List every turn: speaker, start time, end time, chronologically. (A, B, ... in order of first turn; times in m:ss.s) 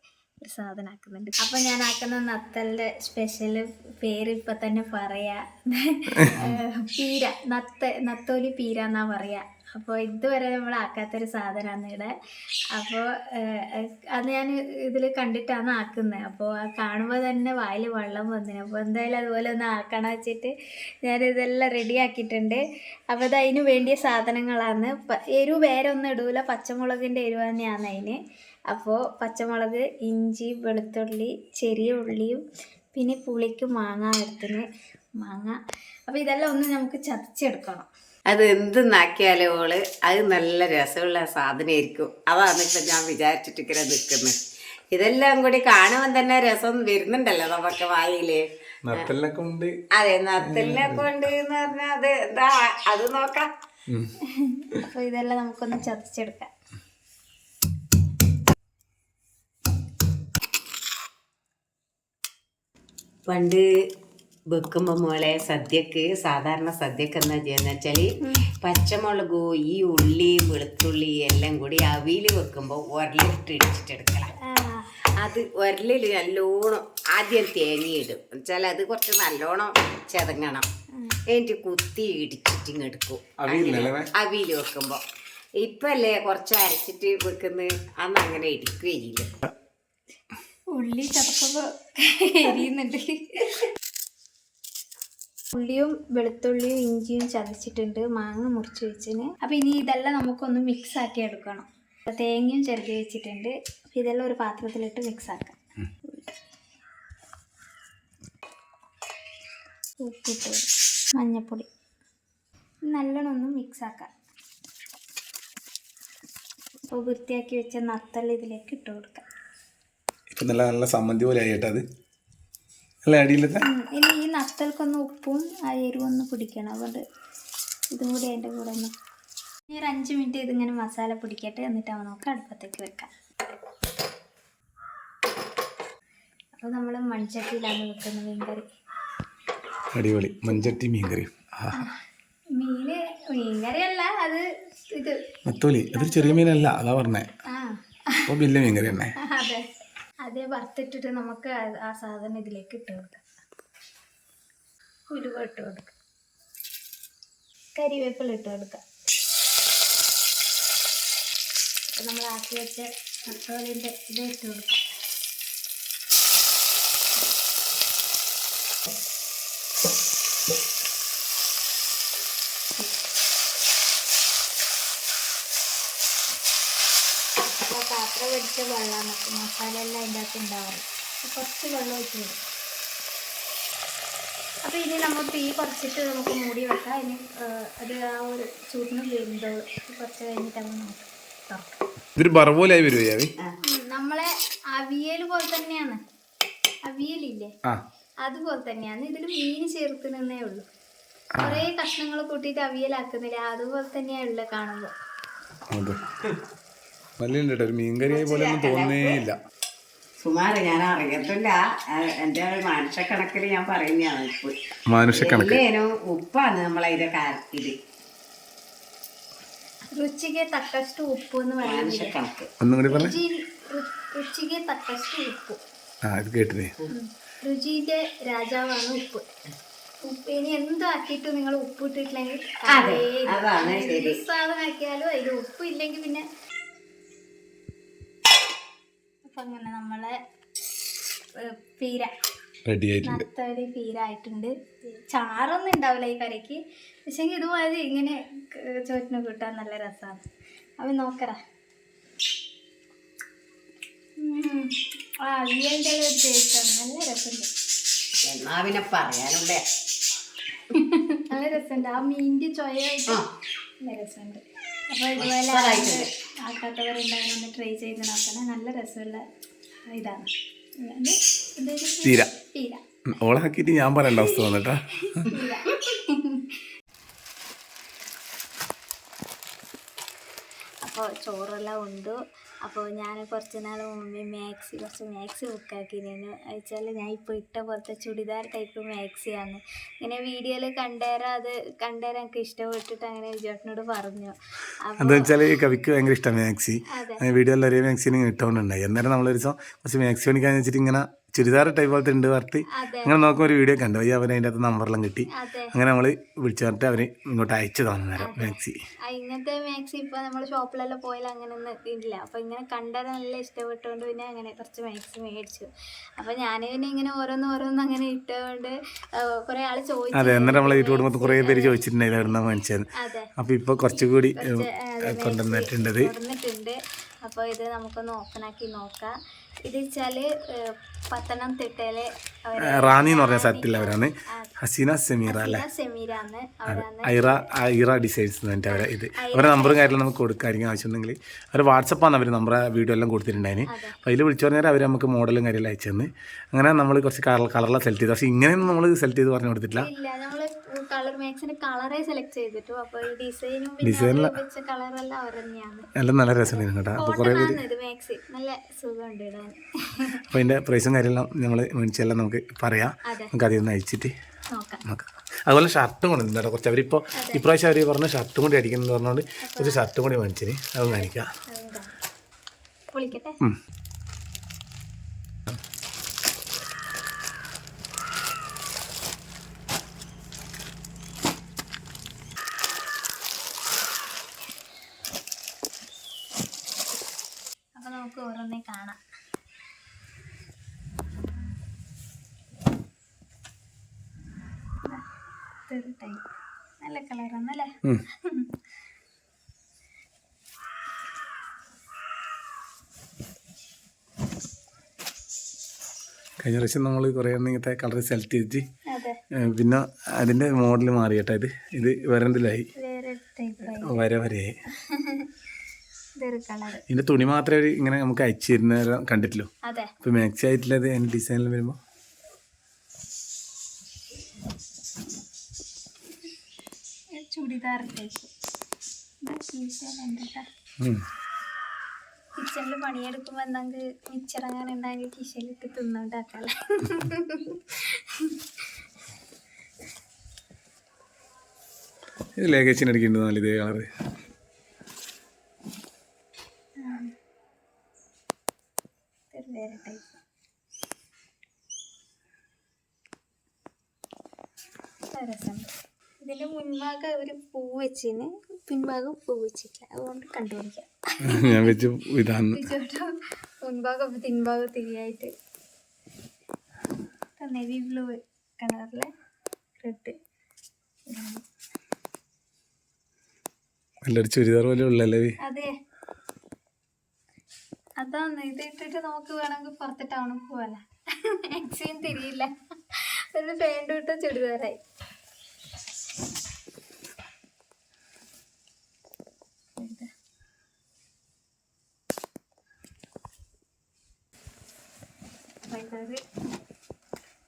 0:00.4-0:12.1 A
0:06.2-0:06.6 B
0:12.8-0:28.2 A
0:28.7-0:32.4 A
0:32.9-0:34.6 A
0:35.2-0:37.9 A
0:38.3-0:44.4 C
0:44.9-0:49.1 C
0:48.8-0:49.8 B
0:50.0-0:53.5 C
0:50.4-0:51.1 B
0:54.3-0:56.5 A
1:03.3-1:03.7 C
1:04.5-1:14.3 C
1:14.4-1:14.9 A
1:15.2-1:20.7 C
1:21.3-1:25.0 C
1:23.4-1:24.1 B
1:25.6-1:29.3 C
1:30.7-1:33.6 A
1:35.5-1:45.6 A
1:50.0-1:51.7 A
1:52.9-1:54.1 A
1:56.9-1:59.3 A
2:00.3-2:01.8 B
2:03.0-2:03.6 B
2:03.6-2:07.0 A
2:07.9-2:08.9 A
2:09.7-2:13.1 A
2:16.6-2:18.6 A
2:19.9-2:21.8 B
2:20.5-2:20.8 A
2:22.6-2:26.5 A
2:25.4-2:27.3 B
2:27.5-2:28.3 A
2:28.3-2:29.1 B
2:29.2-2:29.7 A
2:30.2-2:33.2 A
2:35.1-2:35.9 A
2:37.8-2:38.8 A
2:42.0-2:44.8 A
2:57.7-3:02.4 A
3:04.6-3:11.8 A
3:12.2-3:13.3 B
3:13.6-3:16.0 A
3:16.9-3:17.5 A
3:18.2-3:20.7 A
3:21.4-3:21.7 B
3:21.4-3:24.9 A
3:25.7-3:26.0 B
3:27.2-3:29.4 B
3:28.1-3:29.2 C
3:30.2-3:34.6 C
3:34.9-3:35.6 B
3:35.1-3:37.8 C
3:39.9-3:42.1 A
3:41.6-3:42.5 C
3:42.6-3:43.2 B
3:42.9-3:45.6 A
3:46.1-3:46.7 B
3:46.9-3:49.3 A
3:50.0-3:56.3 A
3:52.7-3:54.2 C
3:59.2-4:00.2 A
4:01.4-4:02.1 A
4:02.7-4:03.2 B
4:03.0-4:10.2 A
4:10.8-4:11.4 A
4:14.2-4:17.5 A
4:18.3-4:19.6 C
4:20.7-4:23.2 A
4:23.8-4:29.2 A
4:25.2-4:26.1 C
4:29.9-4:30.3 A
4:30.8-4:32.8 A
4:32.0-4:32.3 B
4:33.1-4:35.3 B
4:34.2-4:34.4 A
4:35.0-4:36.6 A
4:40.8-4:55.3 A
4:55.0-5:08.8 B
4:56.9-4:57.2 A
5:02.7-5:03.4 A
5:05.3-5:05.8 A
5:08.2-5:18.8 A
5:19.4-5:21.8 A
5:20.1-5:22.8 B
5:23.0-5:23.3 A
5:23.4-5:26.1 B
5:23.9-5:29.1 A
5:29.7-5:34.5 A
5:32.6-5:35.6 B
5:35.3-5:37.4 A
5:36.7-5:49.9 B
5:38.7-5:39.9 A
5:43.7-5:44.0 A
5:49.8-5:55.9 A
5:53.8-5:54.4 B
5:56.0-5:57.6 B
5:56.5-6:00.2 A
6:00.3-6:04.1 B
6:03.1-6:03.3 A
6:04.5-6:04.8 A
6:04.9-6:11.3 B
6:07.2-6:07.4 A
6:09.4-6:09.8 A
6:10.9-6:11.9 A
6:12.9-6:13.4 A
6:27.8-6:29.0 A
6:35.7-6:36.2 A
6:36.8-6:38.5 A
6:46.4-6:48.7 B
6:48.9-6:49.2 A
6:49.3-6:52.7 B
6:52.8-6:54.0 A
6:53.7-6:54.5 B
6:54.8-6:55.3 A
6:56.2-6:56.8 A
6:56.9-6:59.5 B
6:59.7-6:59.9 A
7:00.0-7:01.8 B
7:07.2-7:08.3 A
7:09.2-7:10.5 A
7:12.4-7:18.4 A
7:22.4-7:23.9 B
7:26.8-7:27.1 A
7:29.3-7:30.2 A
7:35.2-7:41.8 A
7:41.2-7:42.6 B
7:42.5-7:45.3 A
7:47.4-7:49.1 A
7:49.8-7:50.2 A
7:51.1-7:51.4 A
7:54.0-7:55.4 B
7:55.4-7:55.7 A
7:58.0-8:04.8 A
8:09.8-8:10.1 A
8:15.7-8:16.2 A